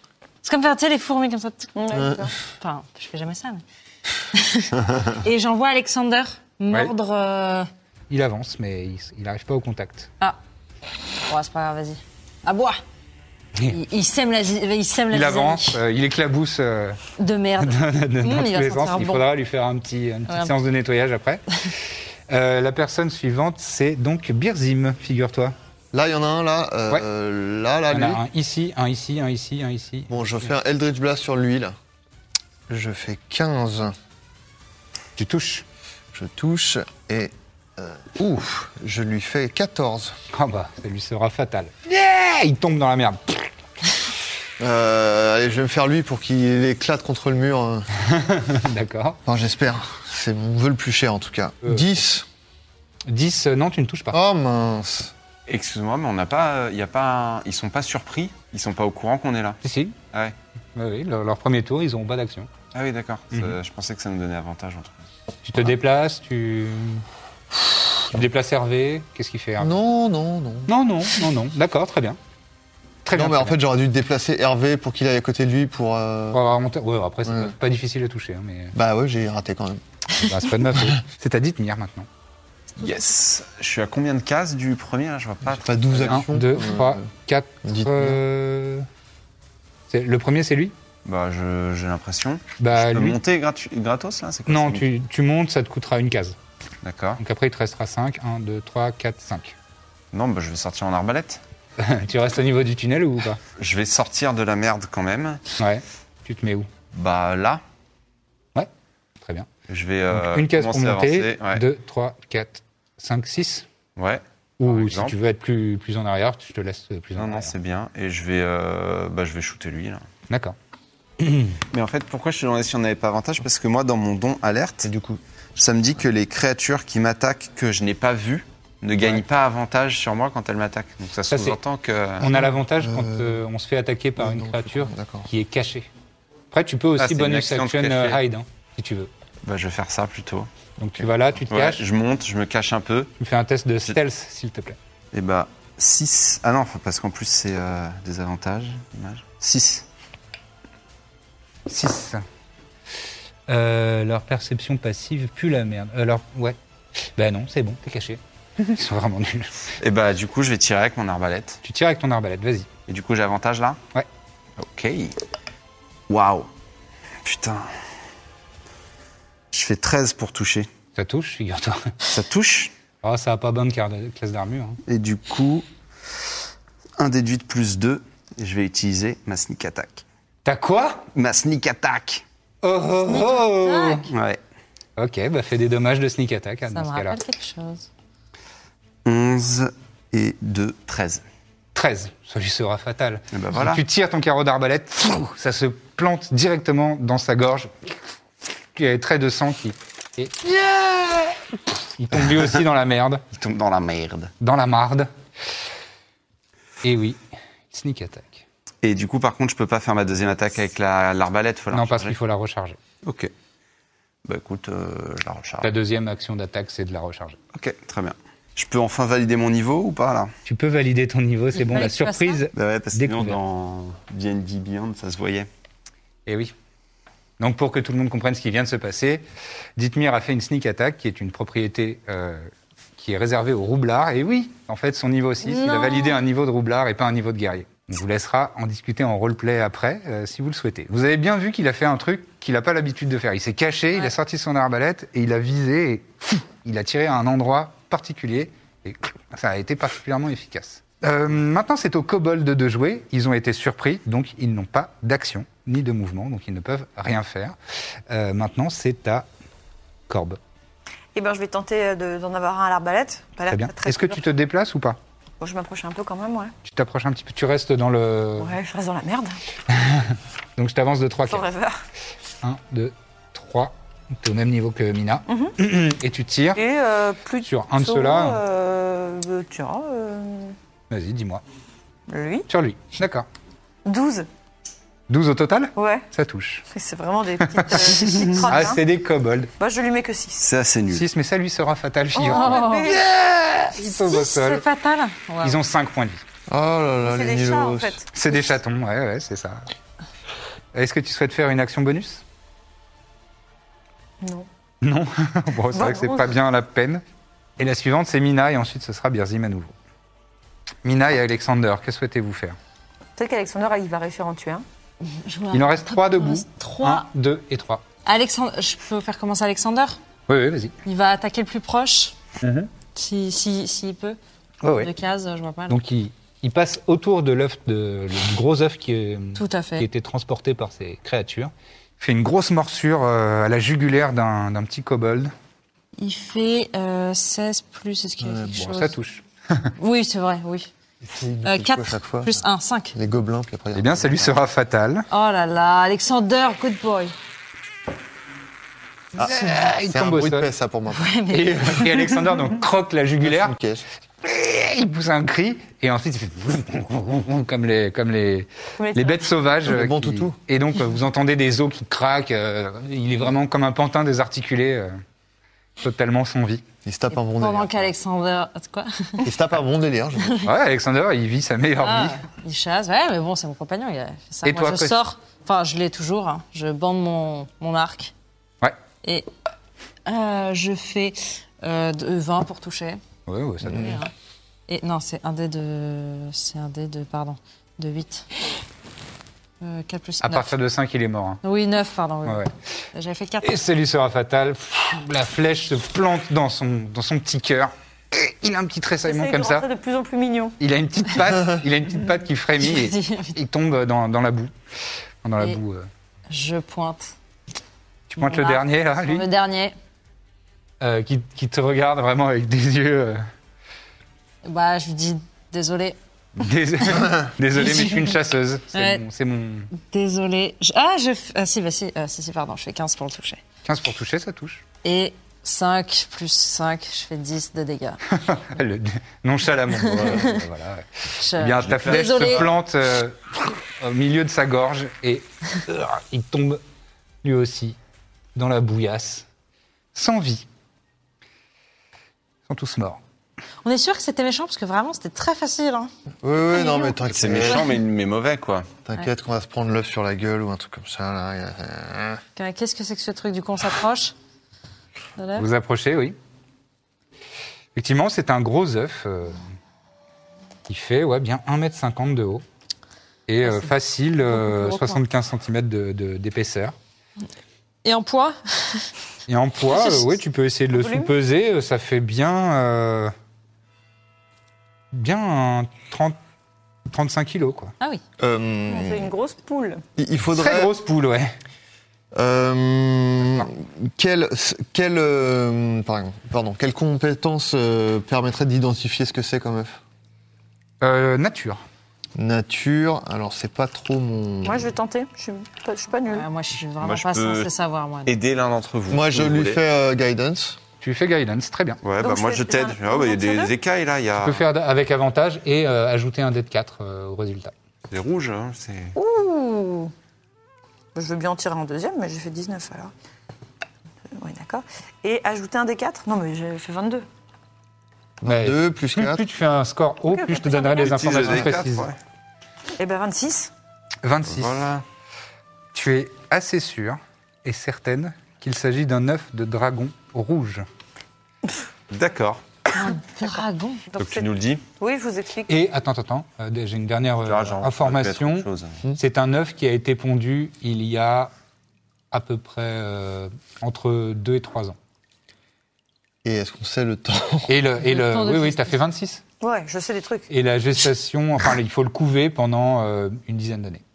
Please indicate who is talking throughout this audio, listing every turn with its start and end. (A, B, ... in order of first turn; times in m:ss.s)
0:00.4-0:01.7 A
0:01.8-0:02.3 B
0:02.5-0:03.6 A
0:04.3-0:07.7 A
0:08.1-0:10.1 C
0:11.3-0:12.8 A
0:13.7-0:15.8 A
0:15.1-0:17.0 C
0:17.2-0:19.3 A
0:17.6-0:21.4 C
0:20.3-0:20.5 A
0:22.3-0:25.6 C
0:25.9-0:28.2 D
0:27.9-0:30.4 C
0:30.1-0:31.8 D
0:32.7-0:34.0 D
0:35.2-0:35.6 C
0:36.1-0:40.2 D
0:40.3-0:43.5 C
0:44.6-0:47.9 D
0:48.0-0:49.2 C
0:49.3-0:52.3 D
0:53.1-0:54.2 C
0:54.1-0:55.1 D
0:55.5-0:59.6 E
0:59.6-1:00.0 C
1:00.8-1:02.5 C
1:02.7-1:05.0 E
1:05.4-1:07.0 C
1:08.1-1:09.8 C
1:09.6-1:10.7 D
1:10.7-1:12.2 C
1:13.0-1:13.6 C
1:13.1-1:16.4 D
1:16.3-1:18.8 C
1:17.3-1:17.5 D
1:18.8-1:19.8 D
1:20.2-1:22.1 C
1:22.8-1:26.2 E
1:25.5-1:27.1 D
1:26.1-1:28.9 C
1:27.6-1:28.2 D
1:29.9-1:30.7 C
1:31.0-1:34.9 E
1:32.6-1:33.2 C
1:34.5-1:36.4 C
1:36.8-1:37.2 E
1:37.2-1:39.6 C
1:40.1-1:41.4 E
1:41.8-1:43.4 C
1:43.6-1:45.4 E
1:45.6-1:46.7 C
1:46.9-1:47.6 E
1:49.2-1:49.5 C
1:49.7-1:51.6 E
1:50.1-1:53.6 C
1:54.0-1:55.2 E
1:54.6-1:57.5 C
1:57.2-2:00.0 E
2:00.3-2:00.6 C
2:01.2-2:01.6 C
2:01.7-2:12.3 E
2:11.3-2:11.6 C
2:12.2-2:15.9 C
2:12.3-2:13.4 D
2:14.2-2:15.3 D
2:16.5-2:19.1 C
2:17.0-2:18.2 E
2:19.4-2:20.5 E
2:20.8-2:21.8 C
2:21.0-2:23.1 E
2:23.2-2:24.8 C
2:25.1-2:29.8 E
2:31.7-2:32.2 C
2:33.5-2:36.6 C
2:37.2-2:39.7 C
2:39.8-2:41.6 E
2:41.6-2:42.7 C
2:42.9-2:43.8 E
2:44.6-2:45.2 E
2:46.1-2:46.5 E
2:47.2-2:47.7 E
2:49.5-2:50.7 E
2:51.0-2:51.9 C
2:52.1-2:52.7 E
2:53.0-2:54.8 C
2:54.9-2:55.7 E
2:57.0-3:00.0 E
3:00.4-3:01.1 C
3:01.2-3:02.2 E
3:02.6-3:04.1 C
3:03.0-3:04.1 A
3:04.1-3:04.4 E
3:05.0-3:07.2 C
3:06.7-3:07.9 A
3:09.0-3:11.2 E
3:11.8-3:18.0 C
3:13.3-3:13.8 E
3:18.8-3:20.4 C
3:20.5-3:21.3 E
3:22.0-3:23.2 C
3:23.3-3:24.3 E
3:24.4-3:25.1 C
3:26.8-3:28.4 C
3:28.8-3:32.2 E
3:31.7-3:32.8 C
3:33.0-3:33.3 E
3:34.2-3:35.7 E
3:35.6-3:37.4 C
3:37.5-3:40.3 E
3:40.4-3:43.4 C
3:41.5-3:42.5 A
3:42.5-3:45.5 E
3:46.3-3:46.5 C
3:47.4-3:49.2 C
3:49.8-4:17.6 C
3:55.4-3:56.2 A
4:18.1-4:19.3 C
4:20.1-4:20.4 C
4:21.2-4:24.2 B
4:23.5-4:25.0 C
4:25.4-4:26.5 B
4:26.6-4:28.6 C
4:28.4-4:29.4 B
4:29.7-4:31.5 C
4:31.3-4:31.8 B
4:32.4-4:36.6 C
4:35.3-4:35.6 B
4:36.6-4:40.6 B
4:37.4-4:38.4 C
4:40.9-4:41.4 C
4:42.1-4:42.5 B
4:42.5-4:43.3 C
4:43.8-4:44.3 B
4:45.1-4:46.6 C
4:45.8-4:46.1 B
4:46.7-4:48.9 B
4:47.6-4:49.5 C
4:49.6-4:50.4 B
4:50.4-4:51.1 E
4:50.9-4:54.6 C
4:52.2-4:53.0 B
4:52.2-4:53.0 A
4:53.8-4:55.6 A
4:55.4-4:56.2 C
4:56.5-4:58.0 D
4:57.0-4:58.1 B
4:58.1-4:59.6 C
5:00.7-5:02.2 C
5:04.2-5:04.5 B
5:04.8-5:07.0 C
5:05.7-5:06.3 B
5:07.6-5:09.7 C
5:10.8-5:12.6 C
5:13.2-5:14.6 B
5:15.0-5:17.1 A
5:15.5-5:17.8 C
5:18.0-5:20.0 A
5:20.3-5:20.7 C
5:20.8-5:22.2 A
5:22.4-5:22.7 C
5:22.9-5:24.2 A
5:24.6-5:24.9 C
5:24.7-5:25.8 A
5:25.7-5:35.3 C
5:29.4-5:29.9 A
5:36.0-5:39.0 A
5:38.2-5:38.6 D
5:38.6-5:39.7 C
5:39.8-5:40.7 A
5:41.0-5:42.4 D
5:41.4-5:42.9 A
5:42.9-5:44.3 D
5:43.7-5:45.1 C
5:45.1-5:47.2 A
5:49.2-5:50.5 C
5:49.2-5:51.9 D
5:50.9-5:52.2 A
5:51.3-5:53.5 C
5:53.2-5:53.8 D
5:54.2-6:05.0 C
5:58.8-5:59.4 B
5:59.7-6:00.4 D
6:05.8-6:06.6 C
6:06.8-6:07.9 D
6:07.2-6:09.3 A
6:09.2-6:10.5 D
6:10.2-6:10.5 A
6:10.4-6:12.2 C
6:11.8-6:18.1 A
6:14.4-6:15.0 C
6:19.0-6:19.3 A
6:20.0-6:23.0 A
6:23.3-6:24.0 C
6:23.7-6:24.1 A
6:24.7-6:28.3 A
6:29.6-6:30.6 A
6:30.2-6:31.4 C
6:31.4-6:33.6 A
6:32.2-6:32.5 C
6:33.4-6:39.7 C
6:39.0-6:40.6 B
6:40.6-6:44.5 C
6:42.6-6:43.4 A
6:45.2-6:45.9 C
6:46.3-6:47.1 A
6:48.1-6:49.3 C
6:48.2-6:49.8 A
6:50.8-6:53.3 C
6:54.4-6:56.0 A
6:56.4-6:59.7 C
6:56.8-6:58.2 A
6:58.7-6:59.0 A
6:59.7-7:03.4 A
7:03.6-7:04.6 C
7:04.8-7:08.0 A
7:08.1-7:16.6 C
7:09.7-7:10.4 A
7:11.2-7:12.6 A
7:17.2-7:17.8 C
7:18.4-7:19.3 C
7:19.9-7:20.5 C
7:22.5-7:23.0 C
7:23.6-7:25.9 A
7:26.2-7:27.8 D
7:26.5-7:27.8 A
7:27.1-7:28.7 E
7:28.9-7:32.2 D
7:32.4-7:34.1 A
7:35.2-7:35.5 A
7:35.4-7:36.2 C
7:37.8-7:39.4 C
7:40.7-7:42.4 C
7:43.3-7:46.8 C
7:43.4-7:45.0 A
7:47.8-7:48.9 A
7:49.3-7:53.1 C
7:49.7-7:50.2 A
7:50.7-7:51.1 B
7:54.9-7:56.2 C
7:56.9-7:57.7 C
7:58.2-7:59.1 D
7:58.7-7:59.8 B
8:00.0-8:00.7 D
8:00.3-8:01.3 C
8:02.1-8:09.8 D
8:10.8-8:11.6 C
8:12.2-8:14.7 D
8:14.4-8:16.3 B
8:16.1-8:18.2 A
8:16.8-8:17.5 E
8:18.0-8:19.6 E
8:18.9-8:20.6 D
8:20.8-8:21.8 C
8:21.8-8:24.4 E
8:22.0-8:23.5 B
8:24.2-8:27.5 C
8:27.9-8:29.0 E
8:29.0-8:29.9 B
8:31.0-8:32.9 B
8:34.2-8:37.1 B
8:38.2-8:39.2 D
8:38.2-8:41.9 C
8:40.1-8:41.5 B
8:40.8-8:42.0 E
8:42.8-8:43.5 B
8:44.0-8:44.8 C
8:44.3-8:44.8 E
8:45.7-8:50.6 C
8:51.9-8:52.4 E
8:52.7-8:53.8 A
8:53.9-8:55.6 B
8:54.0-8:54.6 E
8:55.5-9:01.3 C
8:57.2-8:58.8 E
9:02.1-9:04.8 C
9:06.2-9:07.6 D
9:07.5-9:09.2 C
9:07.8-9:08.8 A
9:09.4-9:10.3 B
9:10.3-9:13.8 C